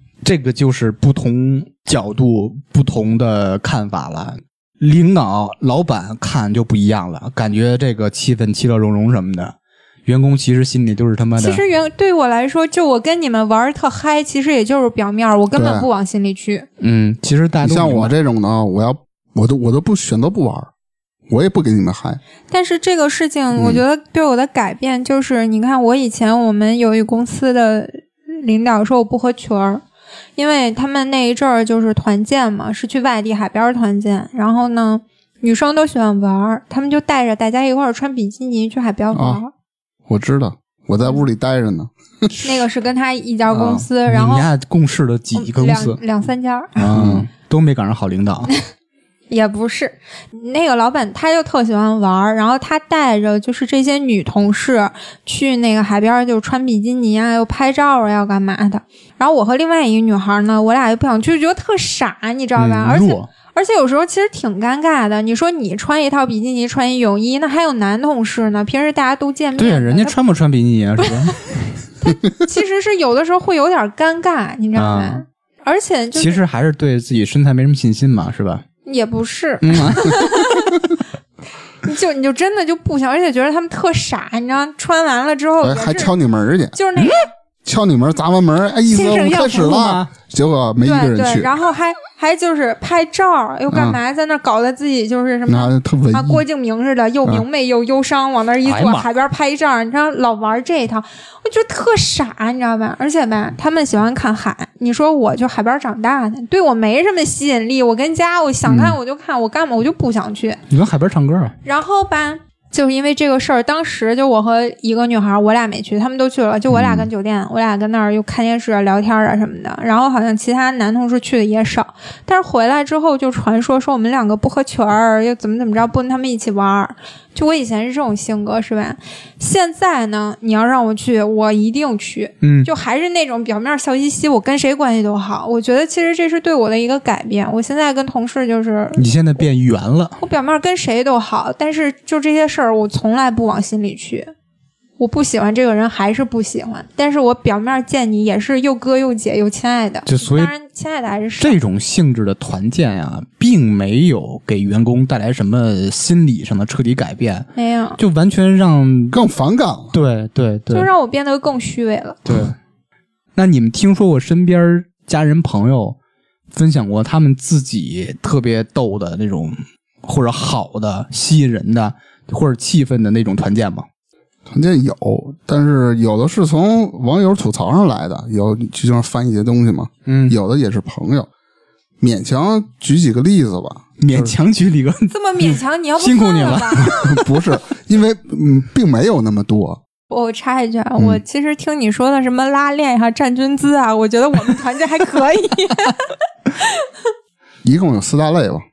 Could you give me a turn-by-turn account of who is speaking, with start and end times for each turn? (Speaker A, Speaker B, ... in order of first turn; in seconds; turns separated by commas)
Speaker A: 0.2-9.5, Speaker A: 10.1-11.6, Speaker B: 11.4-16.7, Speaker C: 15.5-15.9, Speaker A: 16.8-18.1, Speaker C: 17.6-20.7, Speaker C: 21.3-22.2, Speaker B: 22.5-29.8, Speaker C: 23.5-23.8, Speaker B: 30.4-39.5, Speaker C: 39.1-39.4, Speaker C: 40.1-42.4, Speaker B: 42.4-44.5, Speaker A: 43.5-46.0, Speaker B: 45.3-46.8, Speaker A: 46.8-48.5, Speaker C: 46.9-47.3, Speaker B: 49.3-70.1, Speaker A: 62.5-63.3, Speaker A: 69.6-71.4, Speaker B: 72.0-76.4, Speaker A: 74.8-75.2, Speaker A: 76.1-78.6, Speaker B: 78.8-80.8, Speaker A: 79.6-80.4, Speaker B: 81.8-86.1, Speaker C: 85.6-86.8, Speaker B: 86.7-87.3, Speaker C: 87.6-91.5, Speaker B: 88.9-89.8, Speaker A: 89.5-90.1, Speaker B: 90.8-110.6, Speaker C: 93.7-94.0, Speaker C: 95.5-96.4, Speaker A: 98.6-99.1, Speaker C: 108.7-108.9, Speaker A: 110.7-111.5, Speaker B: 111.6-139.0, Speaker C: 116.7-117.1, Speaker A: 132.4-132.7, Speaker A: 138.9-140.2, Speaker B: 140.2-144.3, Speaker B: 145.0-151.6, Speaker A: 150.1-150.5, Speaker A: 151.4-159.2, Speaker B: 157.6-158.0, Speaker C: 159.1-159.9, Speaker A: 159.9-160.9, Speaker B: 160.7-162.2, Speaker A: 162.2-162.5, Speaker A: 163.3-166.0, Speaker A: 166.5-173.8, Speaker C: 174.5-181.3, Speaker A: 180.1-180.3, Speaker C: 182.0-184.3, Speaker A: 184.0-187.2, Speaker B: 185.1-186.9, Speaker C: 186.8-189.8, Speaker B: 190.1-196.9, Speaker C: 197.6-198.6